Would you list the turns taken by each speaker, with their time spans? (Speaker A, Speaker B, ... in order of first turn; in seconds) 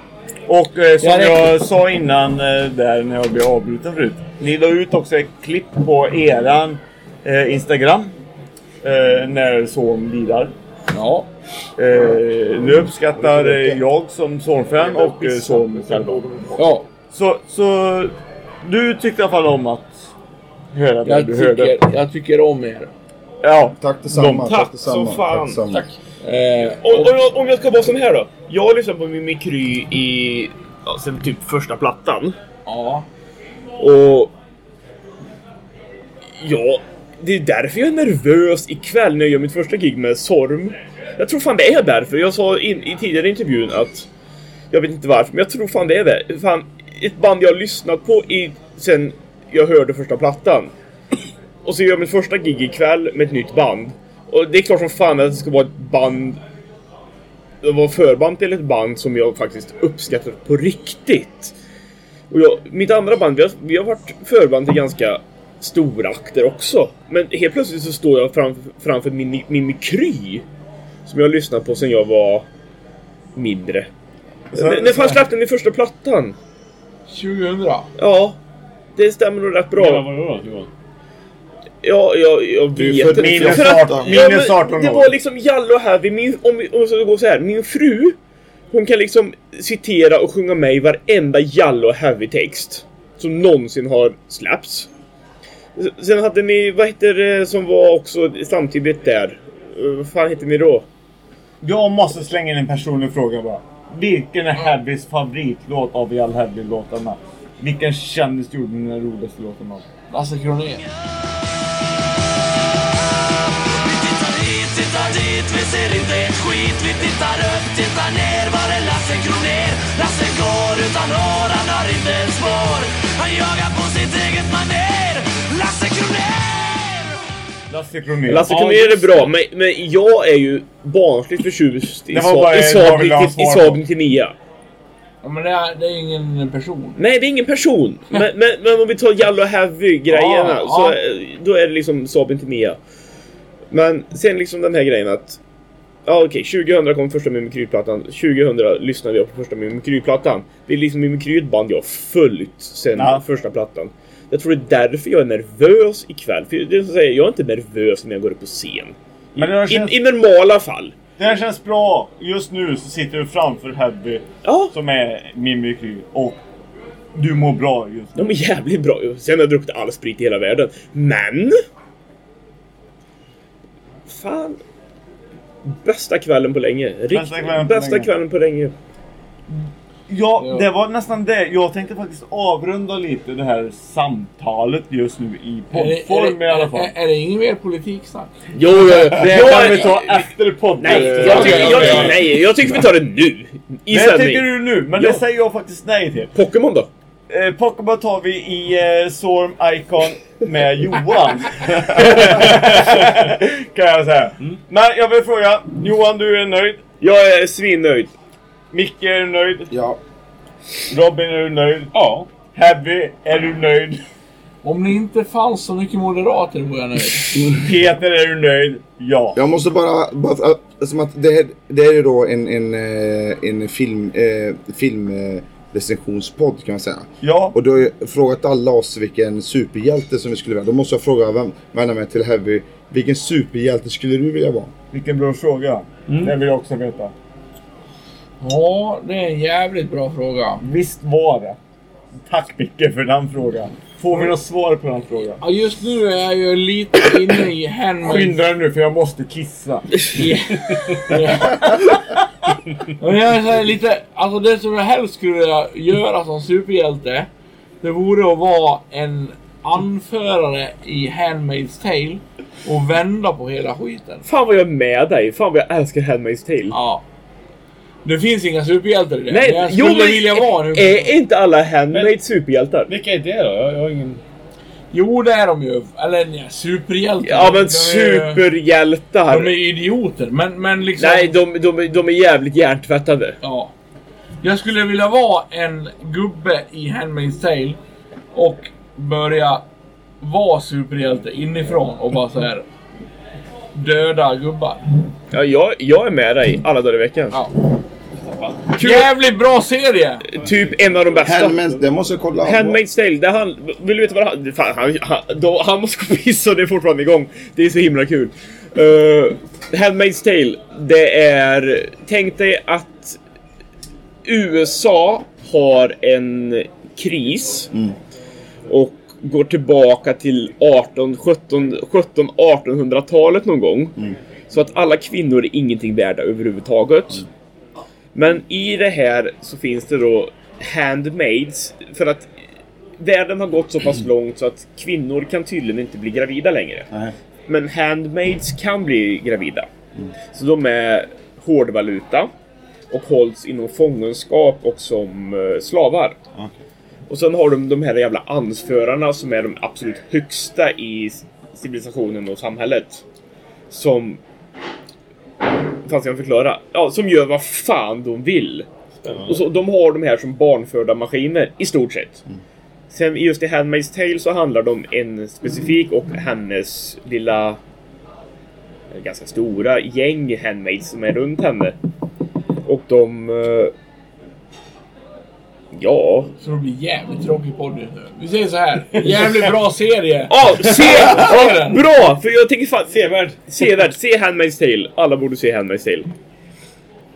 Speaker A: 0.5-8.1, 8.8-10.5, 11.8-18.1, 18.6-20.1, 20.7-21.8, 23.4-24.5, 74.5-75.2, 83.1-85.1, 101.6-109.8, 127.7-128.7, 132.1-133.8, 152.9-153.2, 159.4-160.0, 161.2-166.4, 167.1-168.3, 177.1-178.1, 179.5-186.9, 188.9-192.3, 193.9-196.3, 197.3-206.8, 208.7-209.7, 210.9-211.9, 212.5-214.0, 217.4-219.4, 227.2-227.6, 234.9-237.1, 240.6-241.6, 242.3-245.4, 248.0-250.1
Speaker B: 1.0-1.5, 10.9-11.3, 16.6-16.9, 21.0-22.9, 26.2-27.1, 32.6-33.1, 77.1-77.9, 110.1-110.8, 135.2-137.0, 140.1-141.0, 180.4-180.6, 185.7-189.2, 190.9-192.2, 214.6-217.4, 238.4-240.6, 245.4-248.4, 250.1-252.0, 253.0-257.3, 257.8-264.2, 266.7-267.0, 268.1-271.1, 274.9-278.4, 279.3-281.4, 283.4-283.7, 284.4-287.8, 288.3-289.6, 290.2-292.6, 293.7-294.9, 298.8-300.3, 376.4-381.8
Speaker C: 13.2-13.8, 23.8-25.9, 82.7-84.2, 209.7-210.0, 219.3-234.7, 301.2-302.8
Speaker D: 24.4-25.6, 26.8-32.4, 33.8-34.3, 36.4-44.1, 44.7-50.7, 51.6-56.4, 57.6-61.5, 62.3-70.4, 71.1-72.5, 73.4-73.9, 74.5-76.4, 78.0-78.4, 79.0-80.1, 81.8-88.2, 88.7-94.9, 95.8-100.9, 128.3-134.3, 137.0-142.8, 143.7-145.4, 146.1-160.9, 164.4-164.8, 168.1-171.6, 174.1-174.6, 175.6-178.8, 188.6-195.2, 196.3-196.9, 207.0-208.1, 264.2-266.8, 269.3-272.9, 277.2-279.5, 281.0-283.4, 295.3-297.4, 298.8-299.1, 300.3-301.7, 302.4-313.2, 314.3-317.7, 318.7-327.3, 328.1-332.3, 333.0-336.9, 337.5-339.7, 340.3-342.3, 342.9-346.2, 347.1-353.0, 353.7-354.2, 355.8-358.7, 359.2-362.2, 362.9-367.6, 368.9-371.7, 372.6-373.7, 375.7-376.3, 380.3-386.1
Speaker E: 79.7-80.7, 128.5-129.3, 191.4-192.0, 211.9-212.3, 236.1-236.4, 271.9-272.2, 272.9-274.2, 298.2-298.6, 359.0-359.4, 382.9-383.5
Speaker F: 112.6-127.2